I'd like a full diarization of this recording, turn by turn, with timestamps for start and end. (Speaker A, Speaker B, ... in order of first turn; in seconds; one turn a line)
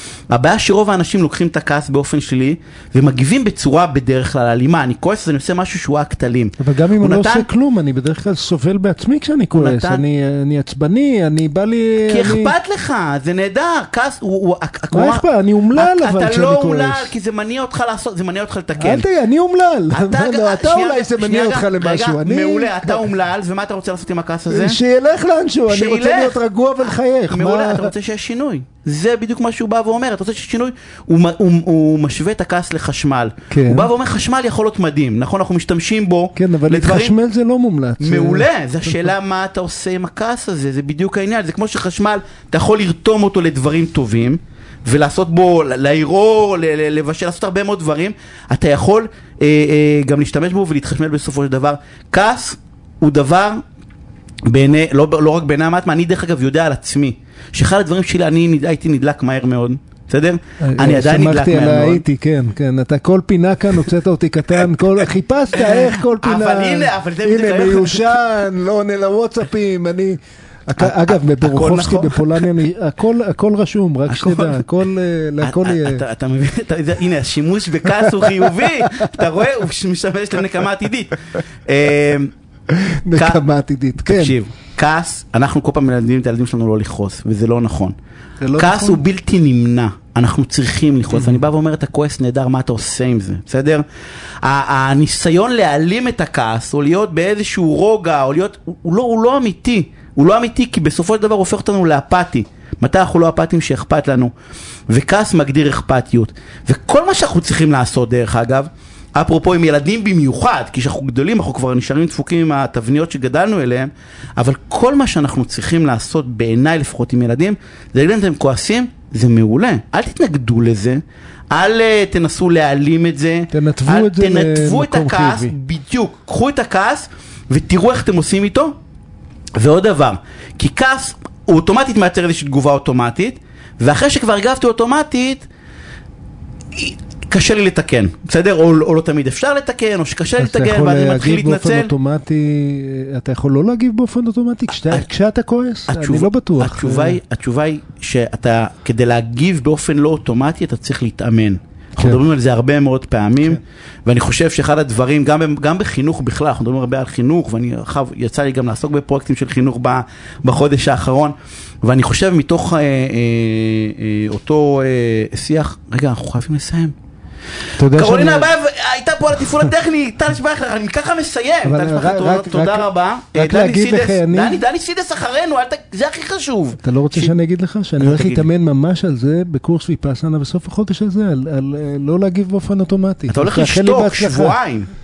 Speaker A: 0.3-7.5
Speaker B: 6.6-12.5
Speaker A: 9.6-10.0
Speaker A: 12.1-15.2
Speaker B: 14.9-17.1
Speaker A: 15.7-19.0
Speaker B: 18.8-23.0
Speaker A: 19.9-24.8
Speaker B: 24.5-27.9
Speaker A: 25.7-37.1
Speaker B: 33.5-33.9
Speaker B: 36.3-39.1
Speaker A: 38.0-53.6
Speaker A: 54.5-62.0
Speaker B: 60.6-76.0
Speaker A: 64.6-65.0
Speaker A: 65.5-68.1
Speaker A: 70.8-72.5
Speaker A: 74.1-74.7
Speaker A: 75.4-82.3
Speaker B: 77.8-79.1
Speaker B: 82.7-84.3
Speaker A: 83.1-83.4
Speaker A: 84.0-87.9
Speaker B: 88.4-89.0
Speaker A: 88.6-93.8
Speaker B: 91.1-91.4
Speaker A: 94.4-104.3
Speaker A: 104.9-128.8
Speaker B: 123.5-125.5
Speaker A: 129.6-135.5
Speaker A: 136.7-141.9
Speaker B: 140.4-147.2
Speaker A: 145.9-166.9
Speaker B: 167.8-168.5
Speaker A: 167.8-177.4
Speaker B: 171.6-174.6
Speaker B: 176.8-184.6
Speaker A: 178.0-178.4
Speaker A: 183.3-184.9